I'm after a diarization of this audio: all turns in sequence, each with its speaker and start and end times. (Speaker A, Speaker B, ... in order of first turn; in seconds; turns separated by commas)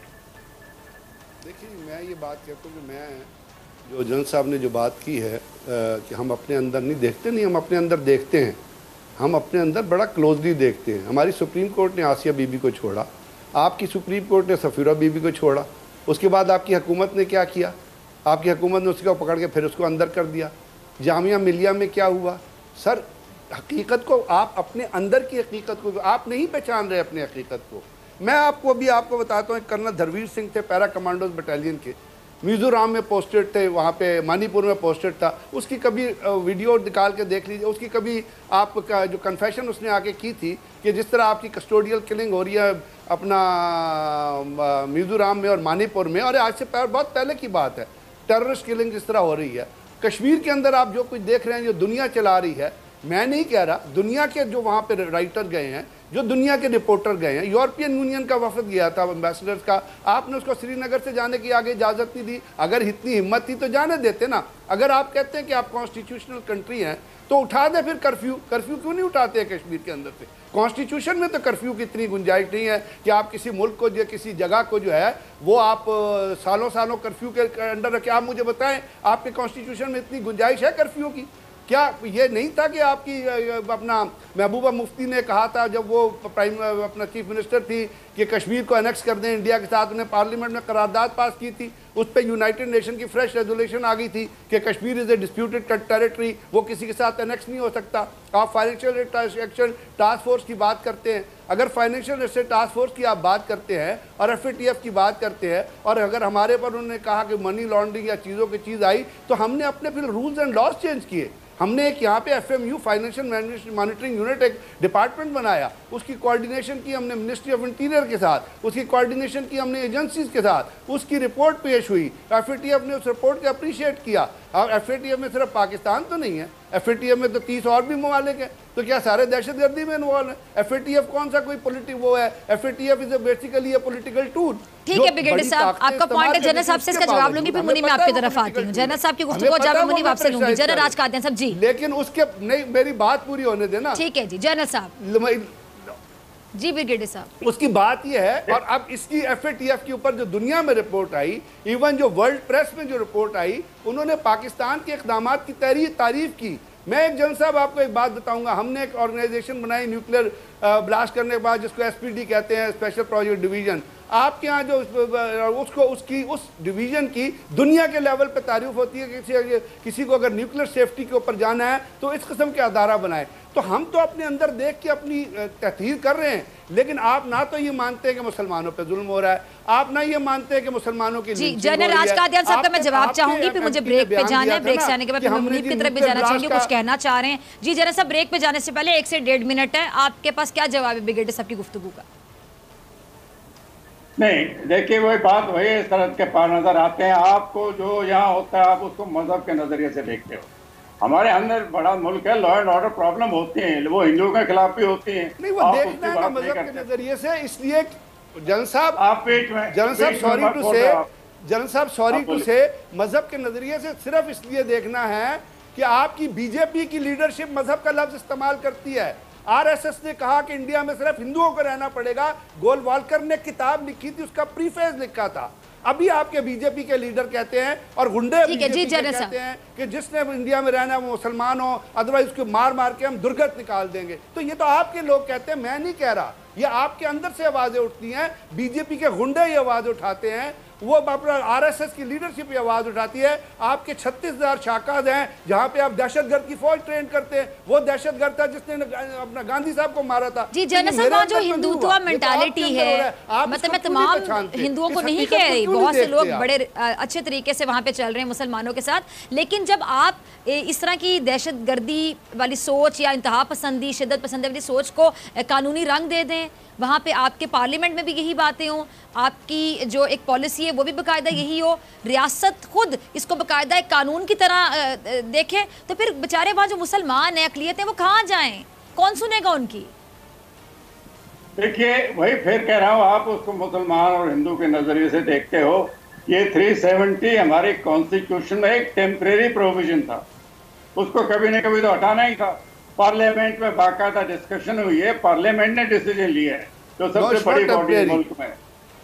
Speaker A: 1.4-3.3, Speaker A: 3.9-8.6, Speaker A: 9.2-17.7, Speaker A: 18.2-140.9, Speaker B: 134.8-141.6, Speaker A: 141.5-144.0, Speaker B: 143.9-144.9, Speaker A: 145.0-145.9, Speaker B: 146.5-147.3, Speaker A: 147.4-186.7, Speaker B: 181.3-192.0, Speaker C: 194.2-200.5, Speaker C: 201.0-206.8, Speaker A: 205.4-209.0, Speaker C: 209.0-211.1, Speaker A: 209.7-256.5, Speaker C: 212.1-212.4, Speaker B: 228.4-229.3, Speaker B: 250.5-279.9, Speaker C: 281.6-290.2, Speaker C: 290.9-298.5, Speaker A: 297.1-298.2